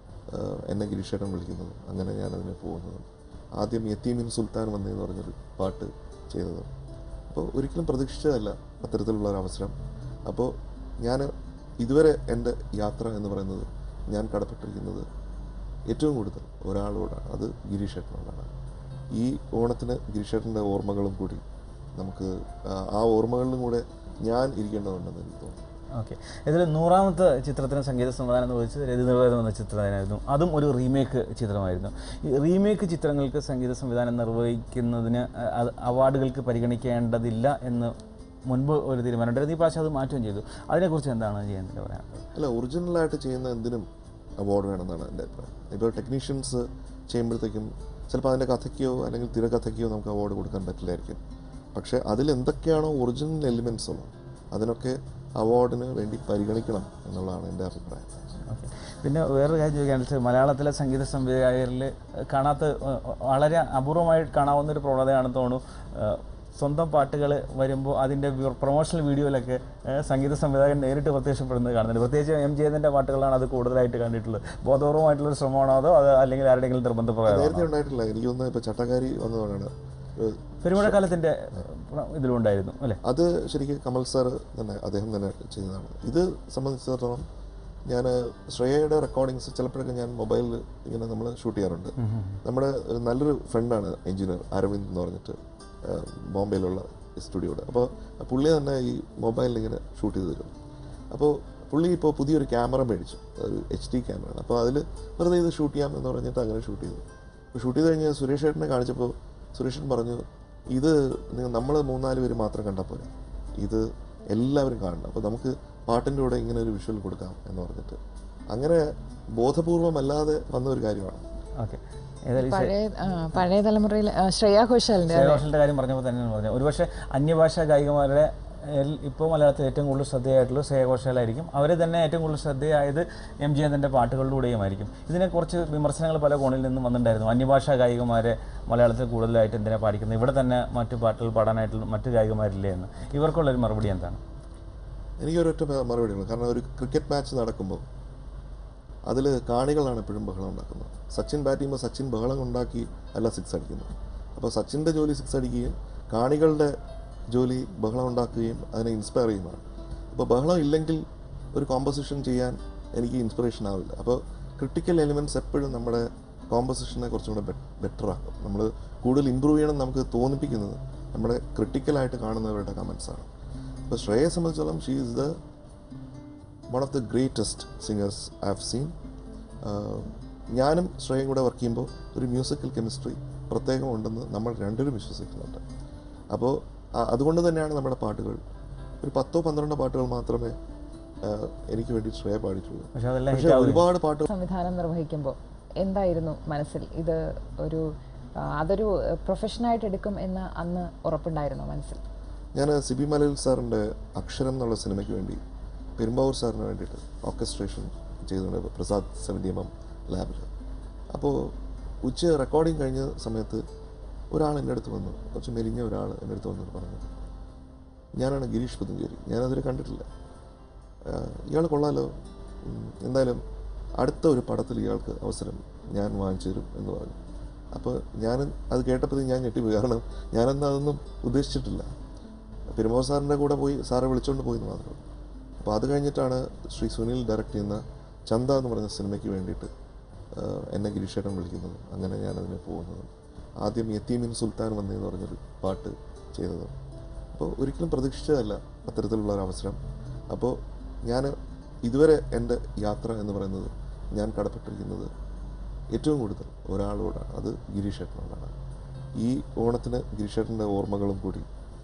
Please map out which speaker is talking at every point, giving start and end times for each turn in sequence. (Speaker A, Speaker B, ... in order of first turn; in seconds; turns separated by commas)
Speaker A: 0.3-6.7, Speaker A: 7.3-9.8, Speaker A: 10.3-15.1, Speaker A: 15.9-18.5, Speaker A: 19.1-21.4, Speaker A: 21.9-25.6, Speaker B: 25.9-37.9, Speaker B: 38.5-42.2, Speaker A: 42.3-43.9, Speaker A: 44.4-51.2, Speaker A: 51.7-58.2, Speaker B: 58.5-77.7, Speaker A: 77.2-81.0, Speaker B: 80.6-83.0, Speaker A: 83.0-87.3, Speaker A: 87.8-100.5, Speaker B: 92.0-92.4, Speaker A: 101.1-121.2, Speaker B: 121.6-122.7, Speaker C: 122.4-125.4, Speaker B: 125.1-144.2, Speaker A: 145.2-147.8, Speaker A: 149.1-156.8, Speaker A: 157.3-173.3, Speaker A: 173.9-175.3, Speaker A: 176.7-178.9, Speaker A: 179.6-185.6, Speaker A: 186.3-188.4, Speaker A: 189.0-190.6, Speaker A: 191.2-194.3, Speaker B: 192.9-193.8, Speaker C: 194.3-202.0, Speaker A: 202.5-205.4, Speaker A: 206.0-210.5, Speaker A: 211.1-213.6, Speaker A: 214.3-217.0, Speaker A: 218.2-220.1, Speaker A: 221.0-223.4, Speaker A: 224.0-227.2, Speaker A: 227.7-231.9, Speaker A: 232.7-235.0, Speaker A: 235.6-239.7, Speaker A: 240.3-246.8, Speaker A: 247.3-249.8, Speaker A: 250.3-255.1, Speaker A: 255.9-258.5, Speaker A: 259.1-261.5